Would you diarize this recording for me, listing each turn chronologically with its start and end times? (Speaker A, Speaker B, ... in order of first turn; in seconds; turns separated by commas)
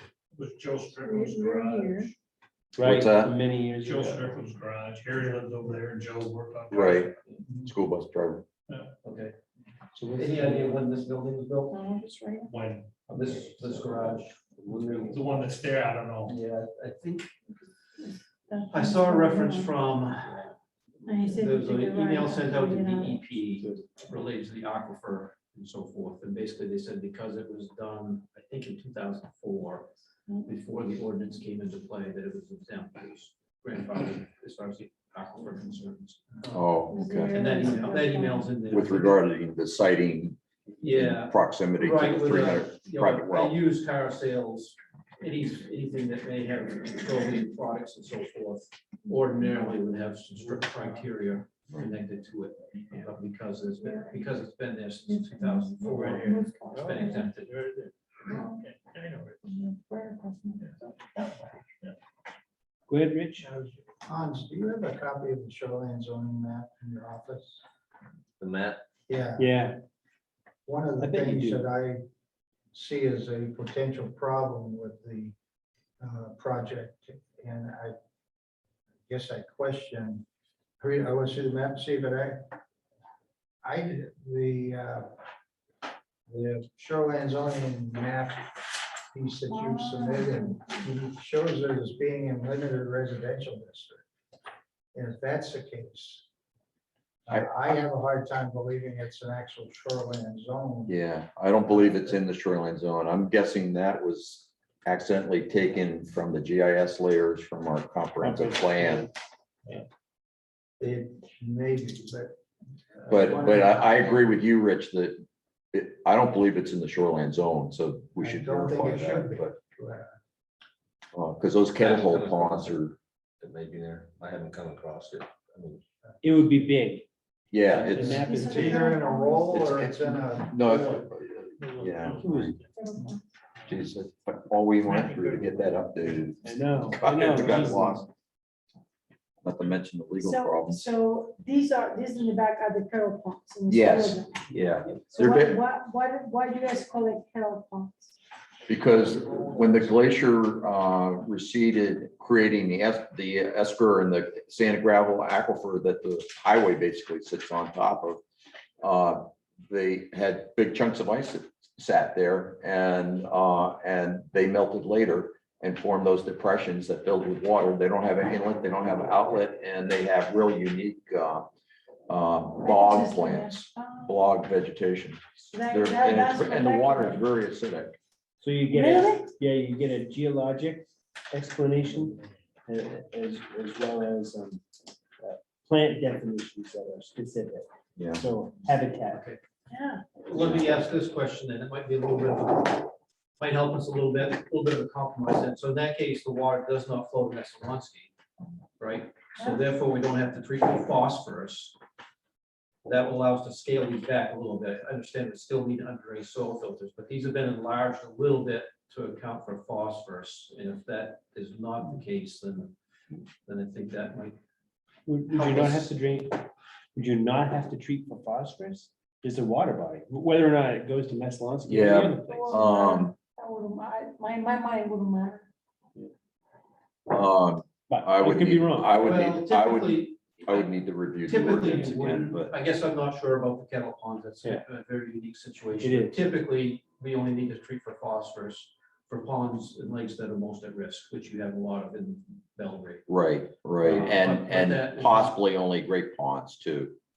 Speaker A: 0.3-2.1, Speaker B: 1.0-2.1, Speaker C: 2.7-4.4, Speaker D: 2.8-3.3, Speaker A: 3.8-7.2, Speaker D: 6.7-8.4, Speaker E: 9.0-9.3, Speaker C: 9.9-10.8, Speaker E: 10.1-11.8, Speaker B: 11.7-12.5, Speaker A: 12.4-12.9, Speaker E: 13.1-15.2, Speaker C: 13.5-15.3, Speaker A: 15.1-16.4, Speaker E: 16.3-17.4, Speaker B: 18.0-19.7, Speaker E: 18.7-20.5, Speaker C: 20.2-20.5, Speaker B: 21.1-23.2, Speaker E: 21.1-29.9, Speaker C: 23.5-24.1, Speaker E: 30.4-36.6, Speaker D: 36.5-37.4, Speaker B: 36.9-38.6, Speaker E: 37.3-39.2, Speaker D: 38.7-43.5, Speaker E: 40.8-57.6, Speaker B: 55.1-57.3, Speaker C: 56.7-57.0, Speaker B: 58.3-58.7, Speaker A: 58.7-59.4, Speaker B: 59.4-60.7, Speaker C: 62.9-63.5, Speaker F: 63.4-67.6, Speaker G: 68.4-68.8, Speaker F: 69.1-69.5, Speaker C: 69.4-69.8, Speaker F: 70.7-72.0, Speaker C: 71.0-71.7, Speaker F: 72.7-75.3, Speaker F: 76.0-77.9, Speaker F: 79.1-80.2, Speaker F: 80.8-82.5, Speaker F: 83.6-85.1, Speaker F: 86.3-94.0, Speaker B: 89.5-90.8, Speaker F: 94.9-96.2, Speaker F: 97.3-101.0, Speaker D: 100.9-109.0, Speaker C: 108.3-109.1, Speaker F: 110.8-112.3, Speaker F: 112.9-114.2, Speaker D: 113.1-119.5, Speaker F: 118.2-120.1, Speaker D: 121.1-122.9, Speaker G: 121.8-122.8, Speaker G: 123.4-125.8, Speaker C: 126.2-127.0, Speaker D: 127.5-128.2, Speaker C: 127.6-129.0, Speaker F: 127.9-130.9, Speaker B: 128.2-129.6, Speaker D: 129.5-132.5, Speaker A: 131.6-132.7, Speaker C: 132.2-132.6, Speaker B: 132.8-133.2, Speaker D: 133.7-136.4, Speaker A: 134.8-135.8, Speaker C: 136.4-138.1, Speaker D: 136.9-138.0, Speaker D: 139.4-140.9, Speaker B: 140.2-144.3, Speaker D: 143.7-145.6, Speaker B: 145.1-148.1, Speaker D: 148.7-158.2, Speaker F: 149.0-149.3, Speaker D: 158.8-171.5, Speaker D: 172.1-177.9, Speaker B: 172.6-174.1, Speaker B: 175.5-177.2, Speaker C: 178.4-184.6, Speaker B: 178.7-179.3, Speaker C: 185.2-189.3, Speaker D: 188.0-188.2, Speaker E: 189.1-189.4, Speaker B: 189.7-190.0, Speaker E: 190.2-198.1, Speaker E: 198.8-201.8, Speaker E: 202.8-212.7, Speaker E: 213.4-214.4, Speaker C: 215.1-222.8, Speaker E: 215.3-215.9, Speaker D: 221.6-223.2, Speaker B: 222.3-225.5, Speaker D: 227.1-232.5, Speaker C: 227.9-229.0, Speaker E: 229.0-230.7, Speaker E: 231.3-243.1, Speaker C: 235.8-236.2, Speaker D: 243.1-247.0, Speaker E: 243.8-245.4